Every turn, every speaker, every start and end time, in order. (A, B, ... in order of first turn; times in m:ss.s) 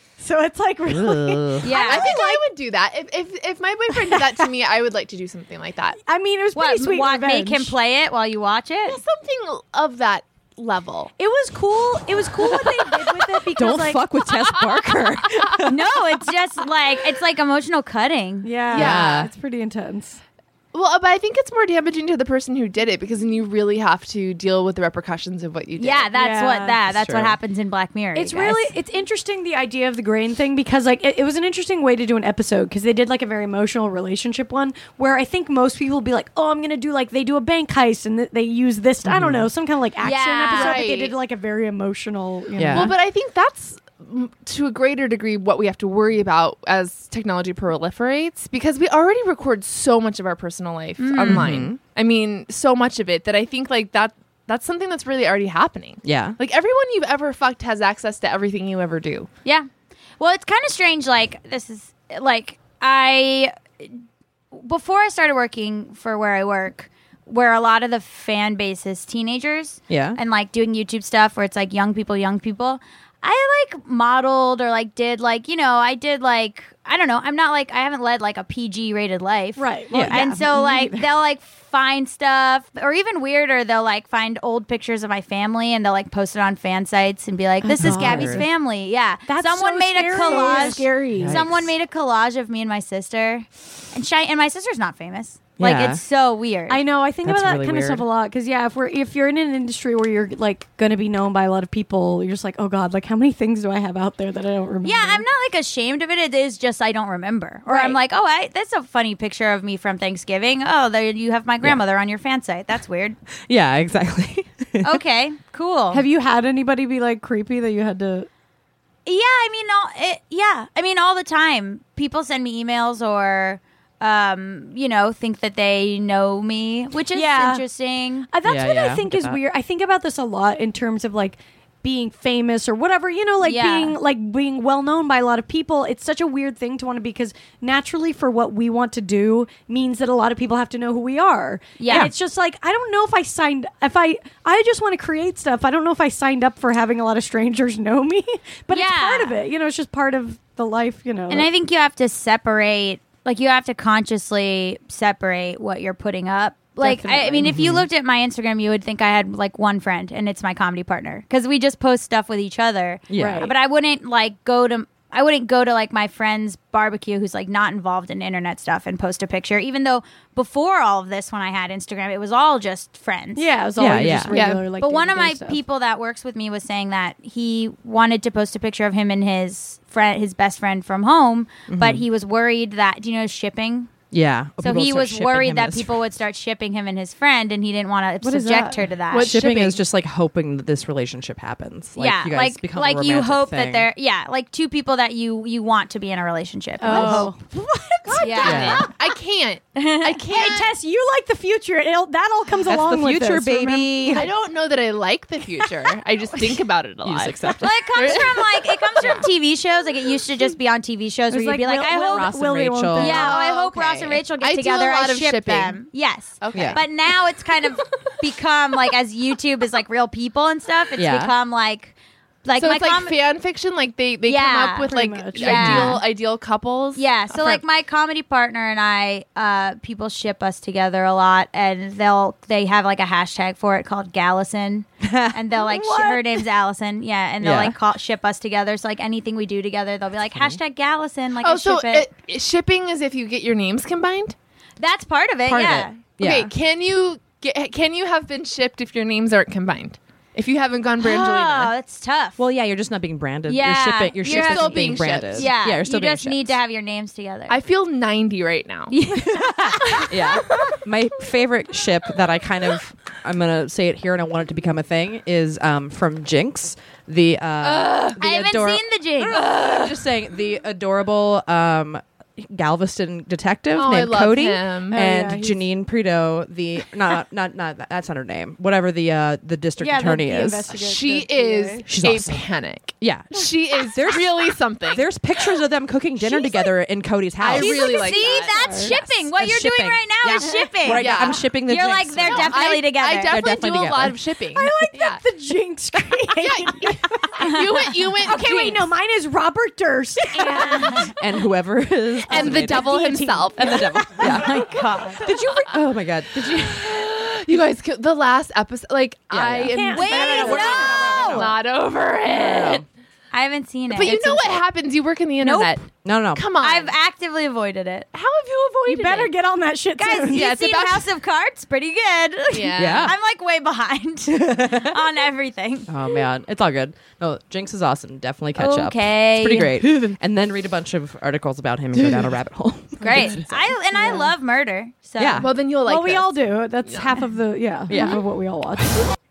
0:00.2-0:02.4 A
0:00.9-0:01.7 B
0:01.6-0:02.2 C
0:01.7-0:06.0 D
0:04.1-0:04.3 A
0:06.1-0:07.8 A
0:06.6-0:09.0 C
0:08.9-0:11.1 D
0:11.2-0:14.0 A
0:13.5-0:16.0 B
0:14.6-0:15.0 D
0:15.7-0:18.6 C
0:18.4-0:20.2 A
0:18.7-0:19.3 B
0:18.7-0:19.2 D
0:20.7-0:26.1 D
0:25.8-0:28.7 C
0:26.1-0:26.8 A
0:26.9-0:27.4 B
0:28.2-0:43.0 A
0:39.1-0:39.5 B
0:40.0-0:40.9 C
0:40.5-0:41.2 D
0:42.6-0:43.0 B
0:42.7-0:59.3 D
0:51.0-0:51.5 C
0:51.3-0:51.8 B
0:56.0-0:56.4 B
1:00.2-1:03.9 C
1:04.5-1:36.8 C
1:09.9-1:10.2 B
1:19.6-1:21.1 A
1:19.9-1:20.2 B
1:27.6-1:28.5 A
1:27.8-1:28.5 B
1:29.3-1:31.5 A
1:30.2-1:31.7 B
1:35.6-1:36.0 B
1:36.7-1:45.2 A
1:37.2-1:38.0 B
1:44.8-1:53.2 C
1:47.7-1:48.0 A
1:53.5-1:54.9 B
1:54.8-1:56.0 C
1:55.9-1:58.3 A
1:59.1-2:08.3 C
2:07.1-2:07.6 A
2:08.3-2:31.5 A
2:08.5-2:09.4 B
2:13.4-2:14.0 C
2:21.8-2:22.1 C
2:28.7-2:29.3 C
2:31.3-2:53.5 C
2:36.8-2:37.5 A
2:37.4-2:37.9 B
2:43.1-2:43.5 B
2:43.2-2:43.5 A
2:53.4-2:55.6 A
2:53.8-2:54.4 B
2:54.3-2:54.6 D
2:54.8-3:03.9 C
3:01.7-3:02.0 B
3:04.1-3:06.0 B
3:04.6-3:09.4 C
3:08.2-3:08.8 A
3:09.1-3:09.8 D
3:09.2-3:13.9 B
3:12.0-3:17.4 C
3:16.8-3:18.9 A
3:16.9-3:17.3 B
3:18.2-3:18.9 C
3:18.2-3:20.7 D
3:18.4-3:18.9 B
3:19.8-3:20.5 C
3:20.3-3:24.3 A
3:22.7-3:24.3 B
3:24.1-3:29.3 D
3:27.0-3:28.3 B
3:27.6-3:32.3 C
3:31.3-3:33.3 A
3:31.9-3:33.3 B
3:33.0-3:43.2 C
3:33.0-3:35.8 D
3:36.4-3:37.1 D
3:36.5-3:36.8 B
3:41.0-3:41.3 B
3:42.6-3:47.6 D
3:44.3-3:46.0 C
3:44.8-3:45.5 A
3:45.4-3:46.0 B
3:47.0-4:02.1 C
3:55.0-3:55.4 B
3:55.7-3:56.4 A
3:57.4-3:57.8 B
4:00.3-4:00.6 B
4:01.4-4:04.4 D
4:04.8-4:06.0 C
4:05.5-4:06.5 B
4:06.2-4:11.7 D
4:11.0-4:12.4 C
4:12.4-4:16.6 B
4:13.5-4:17.6 C
4:14.2-4:15.5 D
4:17.5-4:18.9 D
4:18.9-4:20.4 C
4:19.4-4:40.7 B
4:19.9-4:20.8 D
4:27.6-4:28.2 D
4:28.2-4:29.4 C
4:29.4-4:30.0 D
4:33.8-4:35.0 D
4:34.9-4:35.6 A
4:39.8-4:41.9 A
4:39.8-4:40.2 C
4:40.7-4:45.1 D
4:41.9-4:42.4 B
4:43.0-4:48.2 B
4:47.4-4:49.3 D
4:47.5-4:53.4 C
4:48.4-4:48.9 A
4:49.3-4:52.6 B
4:50.9-4:51.4 D
4:52.2-4:55.2 D
4:53.2-4:54.2 B
4:54.6-4:57.4 A
4:56.3-4:58.9 D
4:57.4-4:58.7 C
4:58.2-5:01.1 A
5:00.4-5:01.0 D
5:00.9-5:03.0 B
5:02.3-5:04.4 D
5:02.3-5:04.6 A
5:03.6-5:04.7 B
5:04.2-5:05.2 C
5:05.2-5:07.6 B
5:06.4-5:12.8 D
5:09.3-5:11.6 B
5:09.7-5:11.3 A
5:10.0-5:11.6 C
5:12.3-5:12.8 B
5:13.3-5:14.6 C
5:13.9-5:16.9 D
5:15.4-5:15.8 C
5:16.0-5:16.5 B
5:16.6-5:18.1 C
5:18.1-5:19.3 D
5:18.9-5:20.6 A
5:20.0-5:25.9 C
5:20.3-5:21.1 D
5:22.5-5:23.2 D
5:22.8-5:23.2 B
5:24.3-5:25.0 B
5:25.9-5:33.7 B
5:28.6-5:30.0 C
5:33.0-5:35.5 C
5:33.0-5:33.4 D
5:34.0-5:34.3 A
5:35.2-5:35.5 B
5:35.4-5:37.2 D
5:35.8-5:39.1 A
5:37.9-5:38.2 B